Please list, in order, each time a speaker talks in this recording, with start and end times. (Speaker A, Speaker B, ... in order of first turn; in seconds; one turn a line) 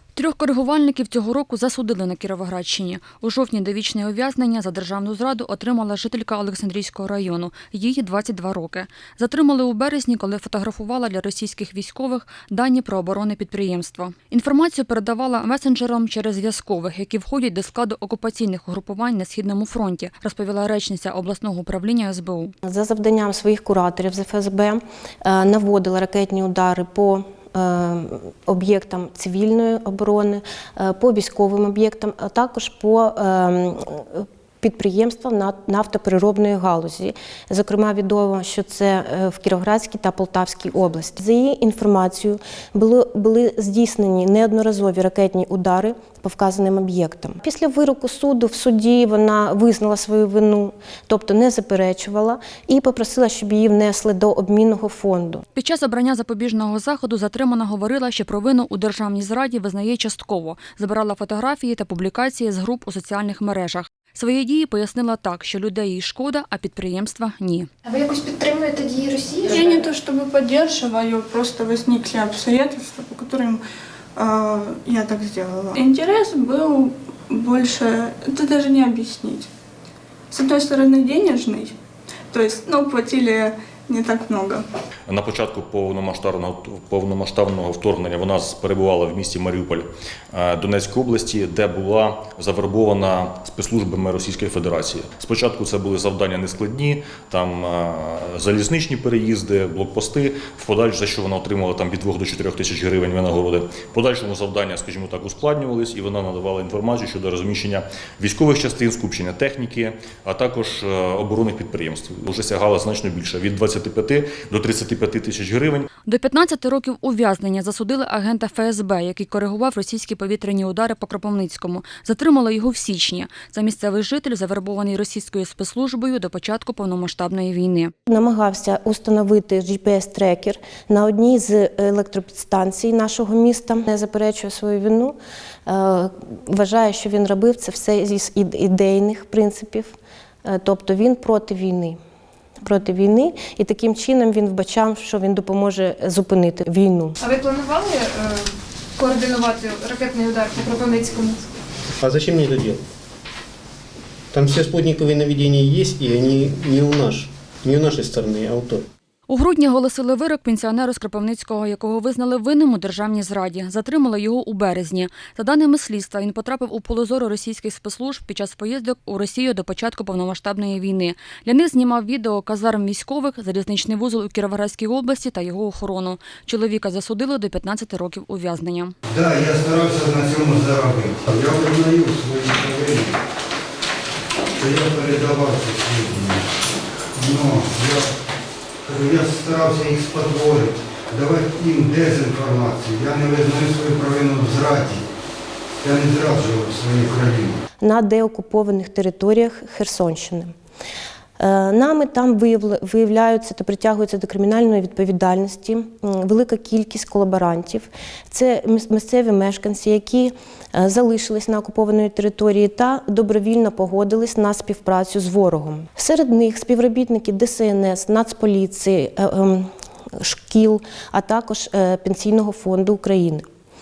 Speaker A: 0.1-22.5
Speaker B: 22.6-55.4
Speaker A: 55.6-67.7
Speaker C: 67.8-69.9
Speaker D: 69.5-73.6
Speaker D: 74.2-79.5
Speaker D: 80.3-81.8
Speaker D: 82.3-84.7
Speaker E: 85.1-115.9
Speaker A: 116.1-127.9
Speaker B: 128.1-135.2
Speaker B: 135.7-142.0
Speaker B: 142.6-147.2
Speaker C: 147.2-151.5
Speaker F: 152.0-152.8
Speaker F: 154.3-158.8
Speaker A: 159.3-178.9
Speaker G: 179.1-183.2
Speaker G: 184.5-186.5
Speaker G: 187.2-188.1
Speaker G: 188.8-195.0
Speaker G: 195.8-197.6
Speaker B: 197.8-200.5
Speaker B: 201.4-223.5